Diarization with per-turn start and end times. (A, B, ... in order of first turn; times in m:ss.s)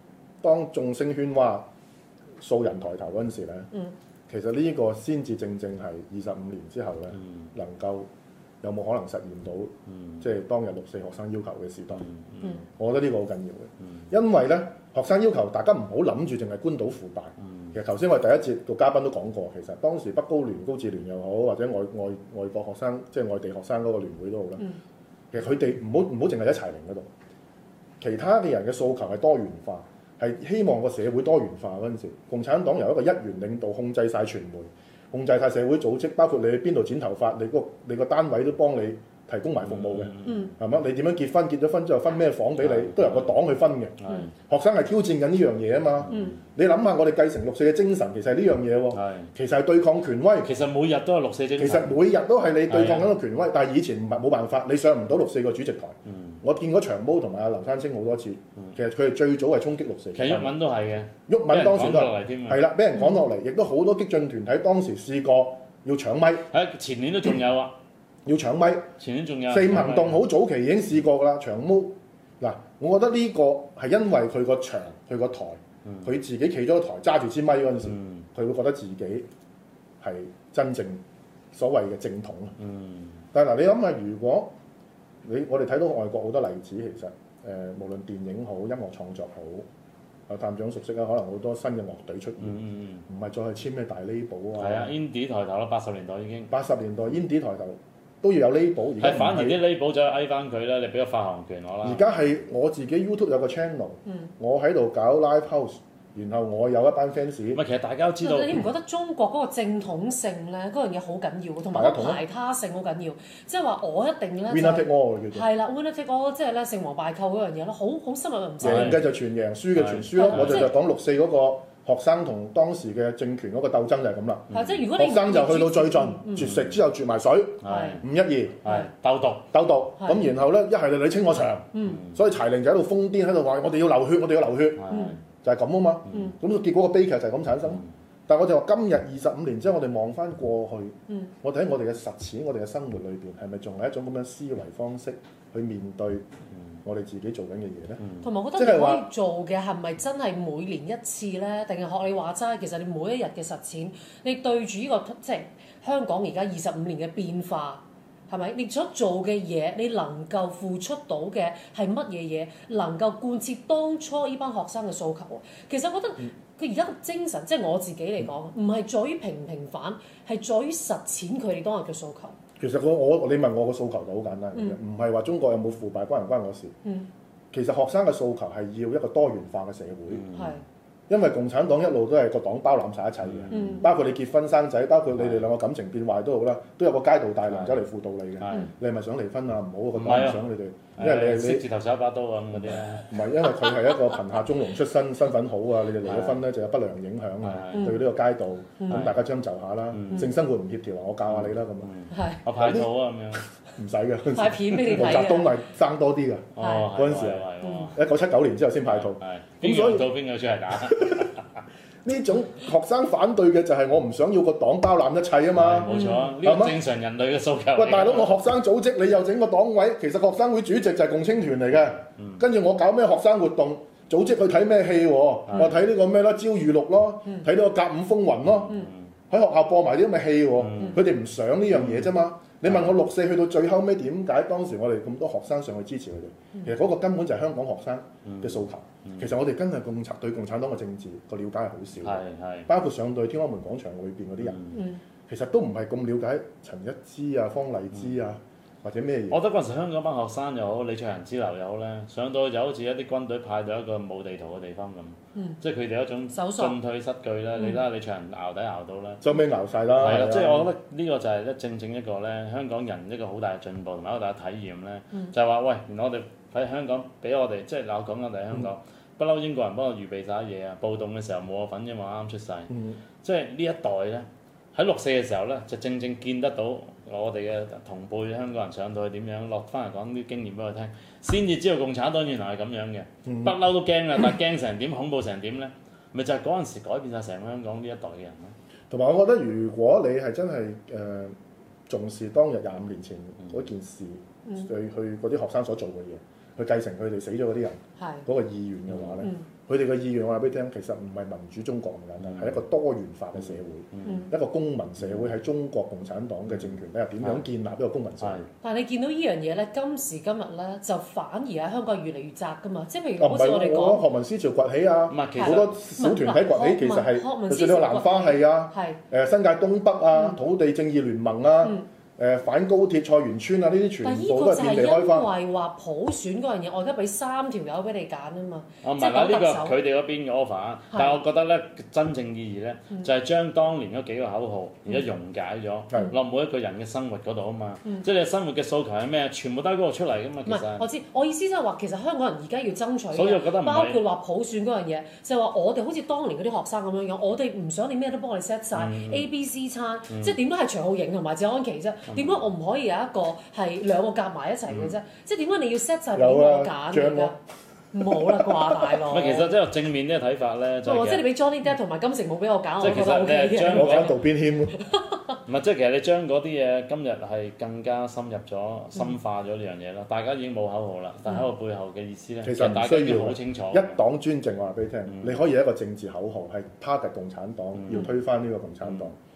0:00.4-0:01.7 A
0:02.4-0:03.7 A
0:04.3-0:08.1 A
0:07.2-0:07.5 B
0:08.6-0:12.0 A
0:09.9-0:10.3 B
0:11.9-0:12.6 B
0:12.6-0:24.7 A
0:25.3-0:27.1 A
0:28.0-0:44.0 A
0:39.6-0:40.5 B
0:40.2-0:40.5 C
0:42.6-0:43.4 B
0:44.0-0:44.3 B
0:44.5-0:50.5 A
0:46.0-0:46.4 B
0:48.9-0:49.3 B
0:50.4-0:52.0 B
0:51.6-1:00.5 A
0:52.7-0:53.1 B
0:56.1-0:56.4 B
1:00.2-1:02.6 B
1:01.3-1:06.5 A
1:03.0-1:03.2 C
1:06.5-1:07.7 B
1:08.2-1:08.9 A
1:09.0-1:10.2 B
1:09.5-1:19.3 A
1:15.8-1:16.1 B
1:17.8-1:18.3 B
1:20.0-1:22.6 A
1:22.6-1:23.2 B
1:23.3-1:24.5 A
1:25.2-1:29.7 A
1:30.3-1:34.9 A
1:32.4-1:33.0 B
1:34.6-1:36.5 B
1:36.5-1:39.6 A
1:39.0-1:42.0 B
1:41.8-1:47.6 A
1:47.5-1:48.7 B
1:48.2-1:59.0 C
1:51.7-1:52.2 A
1:54.5-1:55.5 A
1:58.6-1:59.0 B
1:58.6-2:08.6 A
1:59.7-2:00.7 B
2:00.2-2:00.7 C
2:04.5-2:04.9 B
2:04.5-2:06.5 C
2:06.4-2:06.8 B
2:07.6-2:08.0 B
2:07.7-2:08.0 C
2:08.6-2:09.5 B
2:08.6-2:08.9 C
2:09.5-2:14.8 A
2:10.0-2:10.3 C
2:11.7-2:12.0 C
2:11.8-2:12.2 B
2:14.8-2:15.2 B
2:14.9-2:15.2 C
2:15.4-2:26.2 A
2:16.1-2:16.4 B
2:26.8-2:28.0 A
2:28.0-2:28.3 B
2:28.2-2:52.4 C
2:28.6-2:29.1 A
2:52.6-2:56.8 A
2:57.5-3:00.2 A
3:00.1-3:00.6 B
3:00.3-3:00.6 C
3:01.1-3:11.7 A
3:03.2-3:03.8 B
3:03.5-3:03.9 C
3:05.2-3:05.5 B
3:07.4-3:07.9 B
3:08.4-3:08.7 B
3:09.9-3:10.4 B
3:11.0-3:13.2 B
3:12.5-3:21.9 A
3:16.0-3:16.4 B
3:17.4-3:18.0 B
3:17.7-3:18.0 C
3:18.8-3:19.1 C
3:18.9-3:19.2 B
3:19.9-3:20.3 B
3:21.3-3:23.4 B
3:22.1-3:22.4 C
3:22.6-3:22.9 A
3:23.8-3:30.1 A
3:24.3-3:25.6 C
3:26.6-3:28.0 B
3:26.6-3:26.9 C
3:27.6-3:27.9 C
3:28.8-3:31.5 B
3:30.9-3:31.2 A
3:32.0-3:36.8 A
3:35.5-3:38.4 B
3:35.9-3:36.3 C
3:37.8-4:04.6 A
3:45.5-3:45.8 B
3:48.6-3:49.1 B
3:50.6-3:51.1 B
3:51.7-3:52.1 B
3:52.6-3:53.0 B
3:58.2-3:59.3 B
4:02.0-4:02.7 B
4:04.4-4:04.8 B
4:04.7-4:05.0 C
4:05.3-4:09.4 A
4:09.3-4:19.2 B
4:16.3-4:16.8 C
4:17.6-4:17.8 C
4:19.2-4:20.7 A
4:19.9-4:32.7 B
4:32.7-4:33.0 A
4:33.2-4:48.5 B
4:43.2-4:43.6 A
4:48.9-4:51.4 A
4:51.9-5:08.5 A
4:58.0-4:58.3 C
4:58.9-4:59.3 B
5:02.2-5:02.6 B
5:03.4-5:04.3 B
5:04.0-5:04.3 C
5:05.0-5:05.3 B
5:06.5-5:07.4 B
5:08.2-5:08.5 B
5:08.6-5:14.0 C
5:13.2-5:25.3 A
5:15.1-5:15.8 B
5:15.4-5:19.0 C
5:20.1-5:20.4 C
5:21.6-5:21.9 C
5:24.0-5:29.8 C
5:28.8-5:40.9 B
5:30.9-5:31.2 C
5:40.5-5:57.4 C
5:43.1-5:44.0 B
5:48.7-5:49.3 B
5:50.1-5:50.4 B
5:52.1-5:52.4 B
5:54.7-5:55.0 B
5:56.2-5:57.4 A
5:57.9-5:59.5 C
5:58.1-5:58.8 A
5:59.0-6:01.3 B
6:00.8-6:04.2 C
6:02.8-6:04.2 B
6:03.7-6:04.8 A
6:04.7-6:05.2 C
6:05.5-6:14.0 B
6:12.4-6:19.2 A
6:15.1-6:15.4 B
6:17.8-6:18.1 B
6:18.8-6:19.1 B